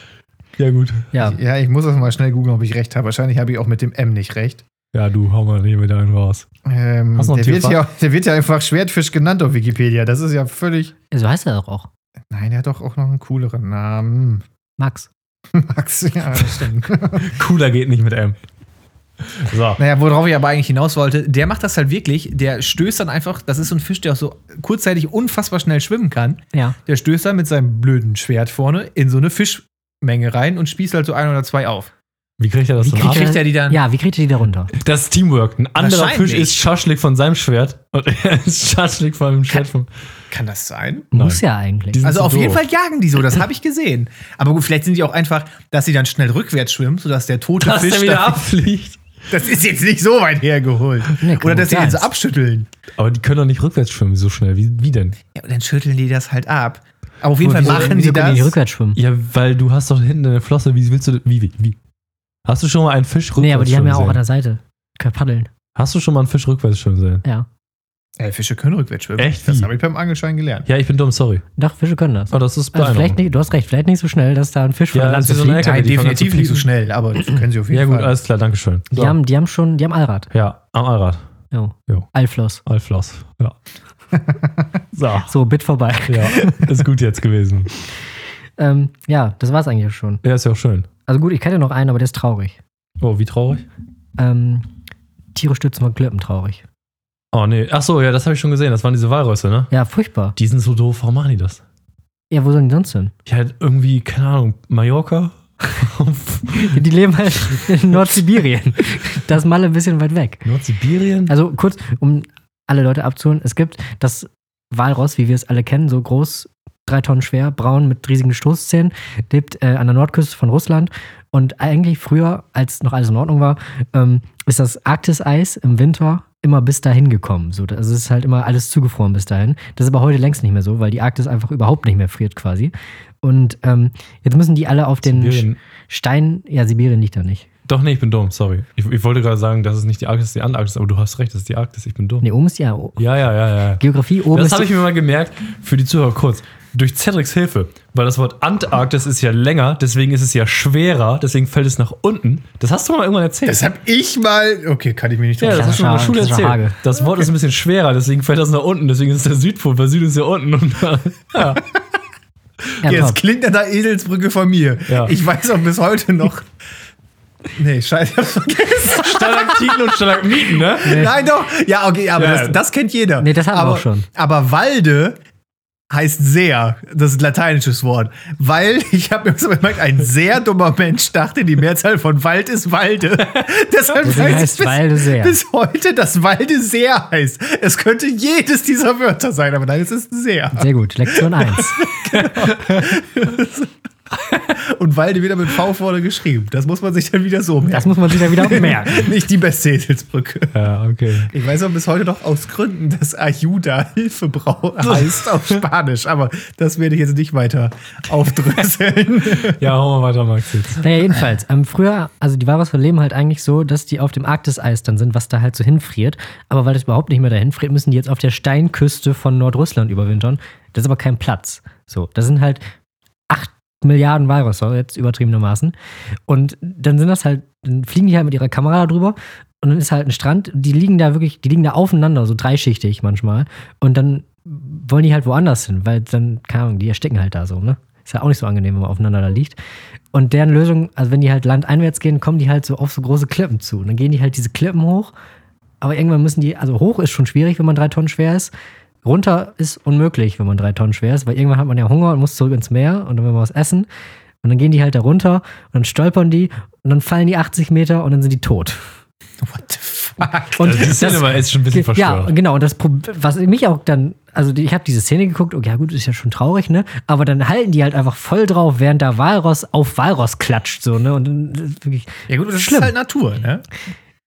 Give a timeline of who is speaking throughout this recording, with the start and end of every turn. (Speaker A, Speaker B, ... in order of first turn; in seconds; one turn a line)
Speaker A: 0.6-1.1
Speaker B: 1.1-1.4
Speaker C: 1.2-4.6
Speaker A: 4.9-6.5
Speaker C: 6.6-10.9
Speaker A: 7.2-7.8
Speaker B: 11.1-11.9
Speaker C: 12.3-14.4
Speaker B: 14.8-15.1
Speaker C: 15.5-17.3
Speaker A: 17.2-18.4
Speaker A: 19.3-19.8
Speaker C: 19.8-31.9
Speaker A: 32.4-33.4
Speaker C: 32.8-33.8
Speaker B: 32.8-34.7
Speaker A: 34.8-39.9
Speaker C: 35.8-36.6
Speaker C: 40.3-41.1
Speaker A: 41.1-41.4
Speaker B: 41.1-42.1
Speaker A: 41.9-42.6
Speaker C: 42.0-48.4
Speaker A: 47.6-49.0
Speaker C: 49.3-52.7
Speaker B: 51.2-52.0
Speaker A: 53.0-55.2
Speaker C: 55.3-58.5
Speaker B: 57.4-59.0
Speaker A: 57.5-57.9
Speaker A: 59.0-61.8
Speaker A: 62.5-64.2
Speaker B: 63.4-65.5
Speaker A: 65.8-67.2
Speaker C: 68.2-70.7
Speaker A: 69.2-69.7
Speaker A: 70.7-71.4
Speaker B: 71.6-75.9
Speaker A: 72.3-73.2
Speaker A: 74.9-76.7
Speaker C: 75.6-78.2
Speaker A: 77.7-79.2
Speaker B: 78.9-80.3
Speaker A: 80.3-81.2
Speaker B: 81.5-82.6
Speaker A: 82.6-83.5
Speaker A: 84.9-85.3
Speaker B: 85.3-86.6
Speaker A: 86.1-87.7
Speaker B: 88.6-90.2
Speaker A: 90.2-90.9
Speaker B: 91.0-92.6
Speaker A: 93.0-93.6
Speaker B: 94.2-94.7
Speaker B: 95.3-96.6
Speaker A: 97.3-99.7
Speaker B: 99.7-100.3
Speaker A: 100.3-101.6
Speaker B: 102.3-103.1
Speaker A: 103.3-106.8
Speaker B: 106.5-110.4
Speaker A: 110.4-111.3
Speaker B: 111.3-137.4
Speaker A: 135.0-135.6
Speaker A: 137.7-142.2
Speaker B: 142.2-143.0
Speaker A: 143.0-153.7
Speaker B: 143.8-144.7
Speaker C: 153.4-156.2
Speaker A: 155.4-161.6
Speaker B: 155.5-156.8
Speaker B: 162.8-163.2
Speaker C: 162.8-166.5
Speaker A: 164.9-165.1
Speaker C: 167.5-175.2
Speaker A: 168.9-171.1
Speaker B: 170.8-171.1
Speaker A: 172.2-172.6
Speaker B: 173.2-174.1
Speaker C: 175.9-193.7
Speaker B: 184.0-185.4
Speaker A: 184.1-184.4
Speaker B: 190.6-191.8
Speaker A: 192.1-192.8
Speaker C: 194.3-200.6
Speaker B: 197.7-199.1
Speaker A: 200.5-201.3
Speaker C: 201.3-209.6
Speaker A: 204.8-205.6
Speaker A: 209.5-210.8
Speaker B: 210.8-222.6
Speaker B: 223.3-225.7
Speaker B: 226.3-239.6
Speaker B: 240.1-245.1
Speaker B: 245.8-248.5
Speaker B: 249.0-253.9
Speaker B: 254.4-258.8
Speaker C: 259.4-261.2
Speaker B: 260.6-272.9
Speaker A: 260.6-262.3
Speaker C: 272.3-273.6